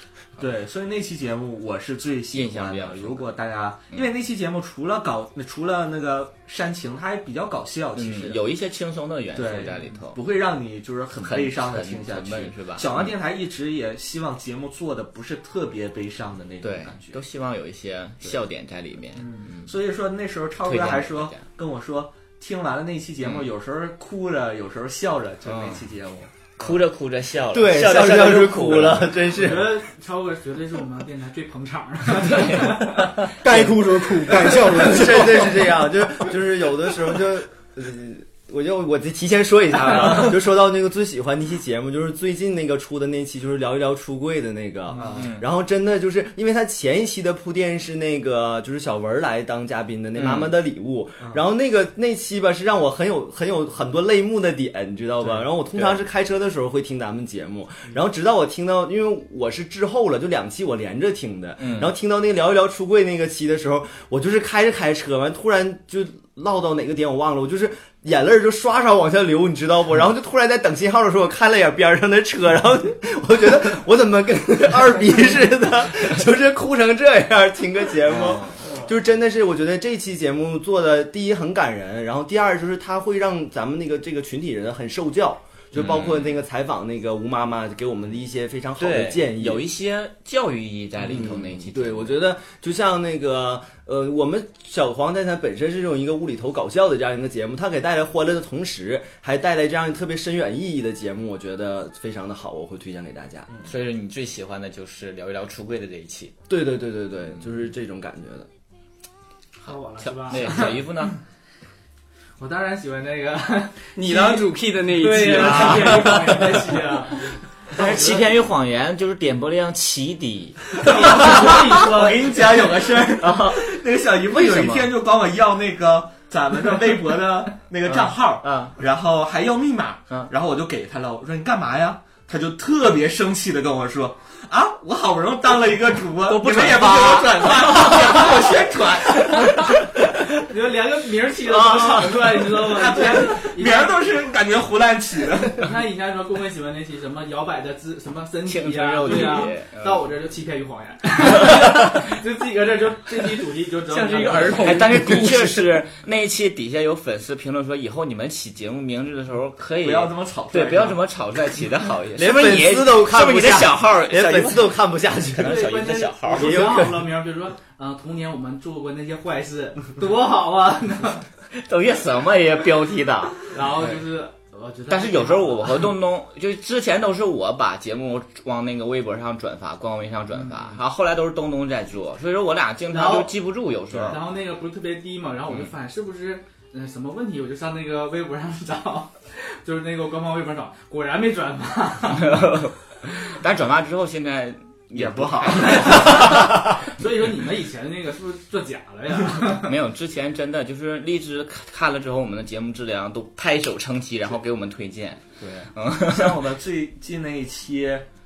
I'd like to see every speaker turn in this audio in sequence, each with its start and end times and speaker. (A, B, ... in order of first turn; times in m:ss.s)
0:00.4-0:08.4 A
0:02.3-0:03.4 B
0:08.0-0:10.2 B
0:09.3-0:17.2 A
0:11.2-0:13.1 B
0:16.6-0:19.7 B
0:19.7-0:26.8 A
0:20.6-0:21.4 B
0:23.2-0:23.5 B
0:25.4-0:25.9 B
0:26.6-0:29.2 B
0:27.5-0:29.8 C
0:29.3-0:33.1 D
0:32.2-0:33.7 B
0:33.4-0:35.6 E
0:34.7-1:29.6 C
0:44.9-0:45.3 A
0:45.1-0:45.4 B
0:50.2-0:50.5 B
1:01.6-1:01.9 B
1:18.1-1:18.5 B
1:25.8-1:26.4 B
1:28.8-1:32.2 B
1:31.0-1:43.5 C
1:43.6-1:46.4 B
1:46.5-1:48.5 C
1:49.6-1:51.2 B
1:49.6-1:50.8 D
1:52.4-1:54.4 D
1:54.0-1:56.7 F
1:55.0-1:58.3 D
1:57.8-2:01.4 B
2:00.8-2:19.4 A
2:00.8-2:02.6 D
2:03.2-2:03.7 B
2:04.3-2:04.9 B
2:07.9-2:08.8 B
2:16.4-2:18.0 B
2:16.4-2:17.1 F
2:20.5-2:24.2 D
2:22.6-2:25.7 A
2:25.6-2:35.3 D
2:28.4-2:30.1 B
2:31.4-2:31.9 B
2:33.9-2:35.6 F
2:34.6-2:44.7 B
2:39.8-2:41.0 A
2:42.2-2:45.7 C
2:45.3-2:46.8 B
2:45.4-2:51.2 D
2:46.3-2:47.1 C
2:51.6-2:53.4 B
2:53.5-2:55.9 D
2:54.9-3:04.2 B
3:02.9-3:03.4 D
3:03.9-3:04.2 A
3:04.1-3:09.1 D
3:09.6-3:12.4 D
3:12.1-3:16.4 B
3:14.9-3:16.2 A
3:15.8-3:19.7 D
3:19.6-3:26.4 B
3:25.4-3:28.1 A